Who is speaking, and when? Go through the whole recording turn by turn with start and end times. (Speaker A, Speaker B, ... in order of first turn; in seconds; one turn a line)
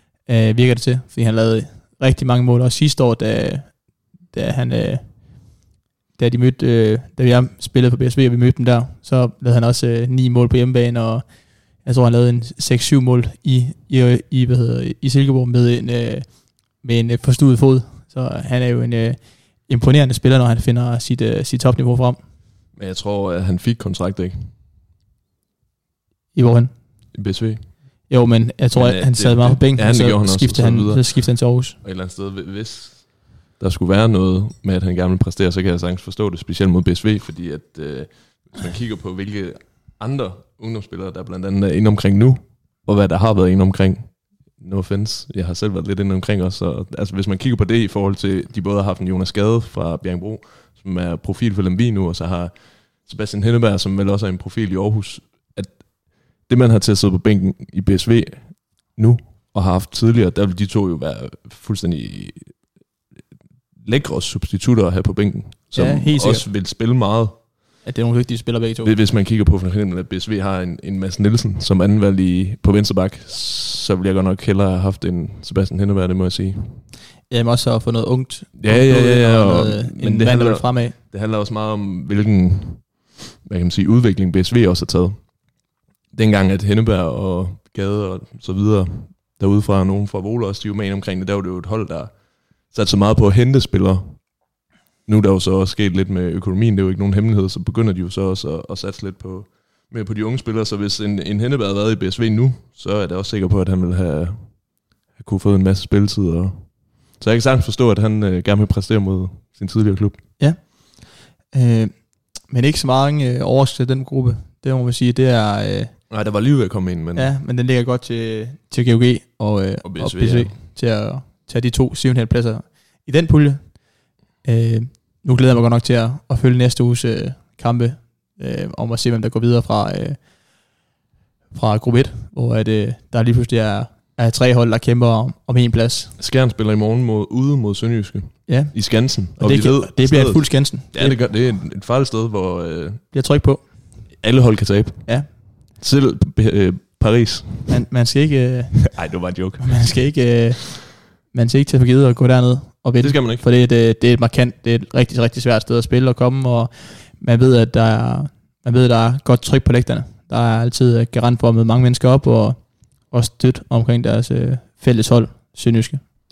Speaker A: 0.2-3.8
Speaker A: 4.3-5.0
Speaker A: 6.2-11.2
Speaker A: 11.8-16.2
Speaker A: 16.8-22.2
Speaker B: 22.8-24.5
Speaker A: 26.3-26.7
Speaker B: 27.1-27.6
Speaker A: 28.1-31.8
Speaker B: 28.7-31.2
Speaker B: 31.7-55.8
Speaker B: 56.4-62.5
Speaker B: 63.8-67.4
Speaker A: 65.7-66.5
Speaker A: 67.8-68.9
Speaker B: 68.8-76.8
Speaker A: 77.3-81.0
Speaker B: 78.6-85.2
Speaker B: 86.1-92.1
Speaker B: 92.7-94.2
Speaker B: 95.0-104.6
Speaker B: 105.1-110.2
Speaker A: 110.4-115.9
Speaker B: 116.1-117.3
Speaker A: 117.1-123.8
Speaker B: 119.8-120.5
Speaker A: 124.4-130.2
Speaker A: 131.5-136.1
Speaker B: 136.2-143.0
Speaker A: 138.5-138.7
Speaker A: 139.3-141.2
Speaker A: 143.1-143.6
Speaker B: 144.2-145.0
Speaker B: 145.8-147.8
Speaker A: 147.7-162.6
Speaker B: 148.9-149.9
Speaker B: 153.0-153.4
Speaker A: 163.1-166.0